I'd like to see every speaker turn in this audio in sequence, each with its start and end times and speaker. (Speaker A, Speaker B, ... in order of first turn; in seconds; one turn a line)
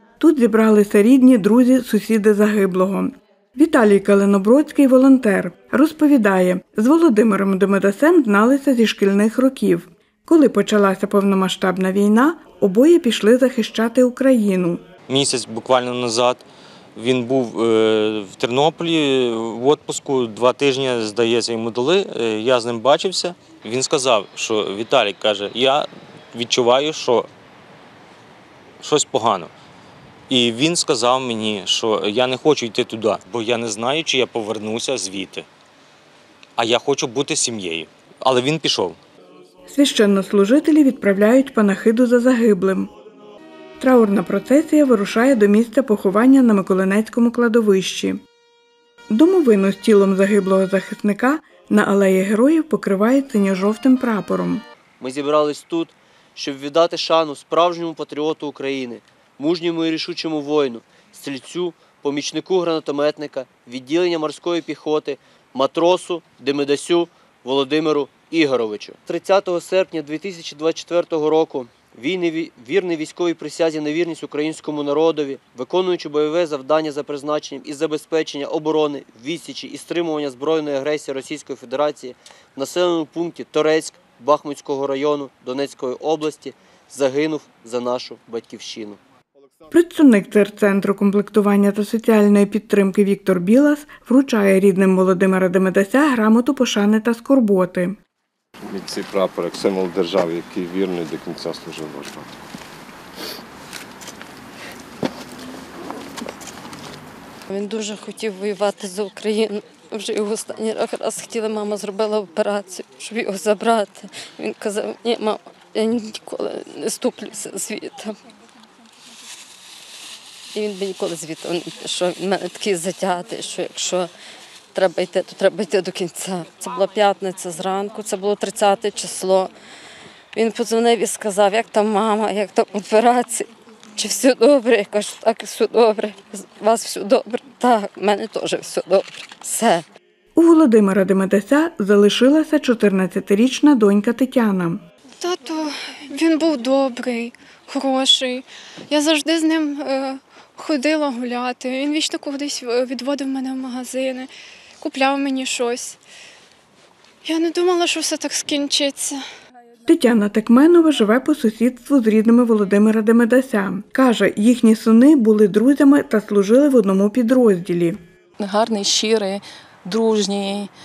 Speaker A: 0.2-14.8
Speaker B: 15.1-27.3
Speaker B: 28.8-29.5
Speaker B: 30.3-35.5
Speaker B: 36.6-39.0
Speaker A: 39.7-42.9
Speaker A: 43.8-48.2
Speaker A: 49.1-54.6
Speaker C: 55.0-89.0
Speaker A: 89.7-98.0
Speaker D: 98.6-102.3
Speaker E: 107.5-118.2
Speaker E: 120.5-124.1
Speaker E: 124.7-129.5
Speaker E: 130.3-139.8
Speaker A: 140.3-144.8
Speaker F: 145.2-154.3
Speaker F: 154.8-156.0
Speaker F: 157.2-159.2
Speaker A: 159.9-168.0
Speaker G: 168.4-170.7